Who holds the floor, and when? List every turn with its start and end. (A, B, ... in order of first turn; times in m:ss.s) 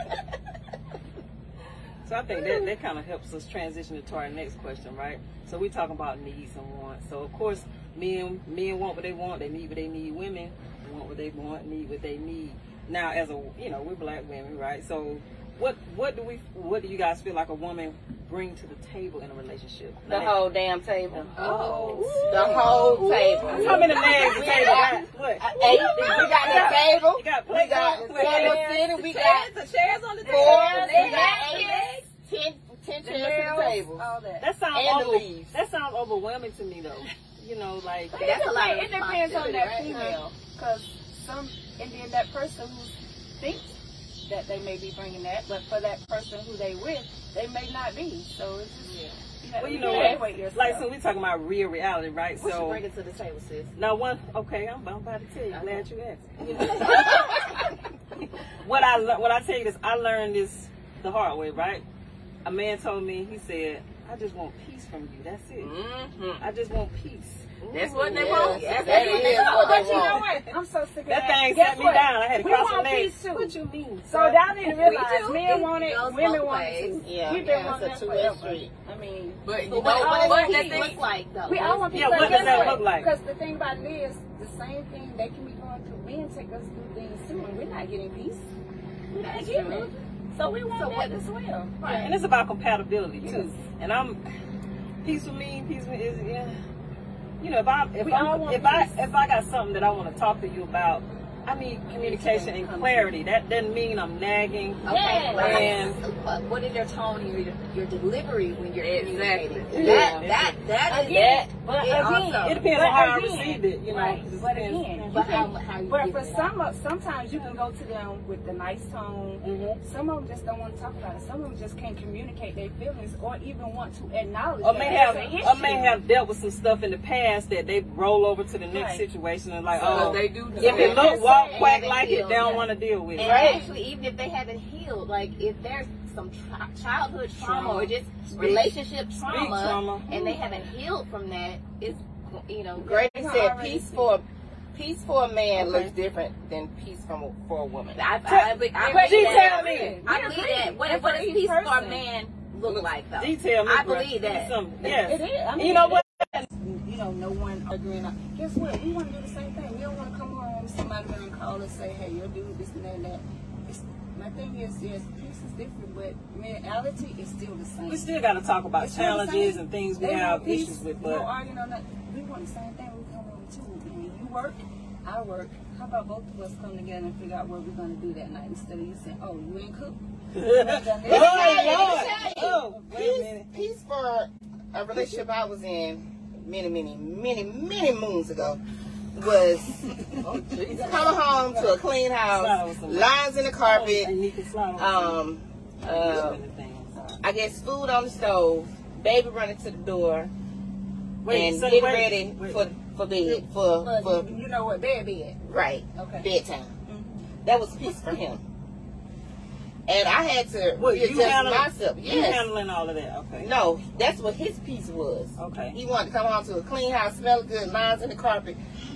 0:02.0-0:20.4 A
0:20.1-0:21.4 B
0:21.1-0:22.6 A
0:21.4-0:26.8 C
0:21.4-0:24.8 D
0:22.3-0:25.0 B
0:23.5-0:28.7 A
0:25.6-0:29.5 B
0:25.6-0:26.5 D
0:28.1-0:28.8 D
0:28.2-0:32.1 C
0:30.2-0:31.9 D
0:30.2-0:34.0 B
0:33.0-0:34.5 D
0:34.4-0:38.2 A
0:34.7-0:35.5 B
0:38.1-0:50.9 D
0:38.2-0:40.2 C
0:48.8-0:49.2 C
0:49.6-0:52.8 A
0:49.7-0:50.2 C
0:52.4-0:53.7 C
0:53.8-0:57.4 A
0:55.5-0:55.9 C
0:56.4-0:57.5 C
0:58.6-1:01.8 A
1:02.4-1:05.8 A
1:05.6-1:06.4 E
1:06.4-1:07.5 A
1:07.6-1:10.2 C
1:07.7-1:09.9 E
1:08.0-1:10.3 B
1:08.8-1:28.5 D
1:09.9-1:10.5 A
1:11.1-1:14.6 A
1:14.6-1:17.0 C
1:17.0-1:18.7 B
1:19.4-1:21.0 E
1:19.7-1:22.8 C
1:21.9-1:23.1 A
1:29.1-1:30.0 C
1:29.2-1:31.8 D
1:30.7-1:31.2 C
1:31.8-1:32.1 C
1:31.8-1:34.2 A
1:33.2-1:33.5 D
1:35.0-1:36.6 A
1:37.4-1:46.0 A
1:38.0-1:38.9 D
1:41.9-1:43.2 D
1:44.8-1:52.6 C
1:44.9-1:45.8 D
1:45.4-1:45.7 E
1:48.8-1:50.6 E
1:49.7-1:50.2 B
1:50.8-2:06.0 D
1:52.4-1:55.2 A
1:55.1-1:56.5 C
1:59.4-1:59.8 A
2:04.6-2:13.5 A
2:08.7-2:09.0 D
2:09.8-2:11.1 E
2:09.9-2:11.7 D
2:10.6-2:23.1 C
2:13.2-2:13.7 D
2:13.3-2:13.6 B
2:17.4-2:20.4 A
2:22.8-2:28.0 B
2:22.9-2:24.1 D
2:25.6-2:25.9 A
2:28.0-2:34.6 C
2:28.3-2:30.0 A
2:28.8-2:32.0 D
2:33.2-2:36.4 A
2:34.8-2:48.1 D
2:47.9-2:51.3 A
2:48.8-3:02.4 D
3:00.3-3:03.5 A
3:01.0-3:08.6 B
3:01.4-3:02.4 C
3:09.2-3:14.1 B
3:10.2-3:11.1 E
3:10.7-3:11.8 D
3:12.3-3:15.2 A
3:14.8-3:16.4 B
3:15.8-3:17.1 A
3:17.2-3:20.3 B
3:21.2-3:22.7 A
3:21.3-3:24.3 B
3:23.2-3:25.4 D
3:25.4-3:26.7 B
3:26.0-3:26.3 D
3:26.9-3:27.3 D
3:27.4-3:28.4 B
3:29.9-3:32.5 B
3:30.8-3:33.5 A
3:33.4-3:38.6 B
3:35.4-3:35.8 A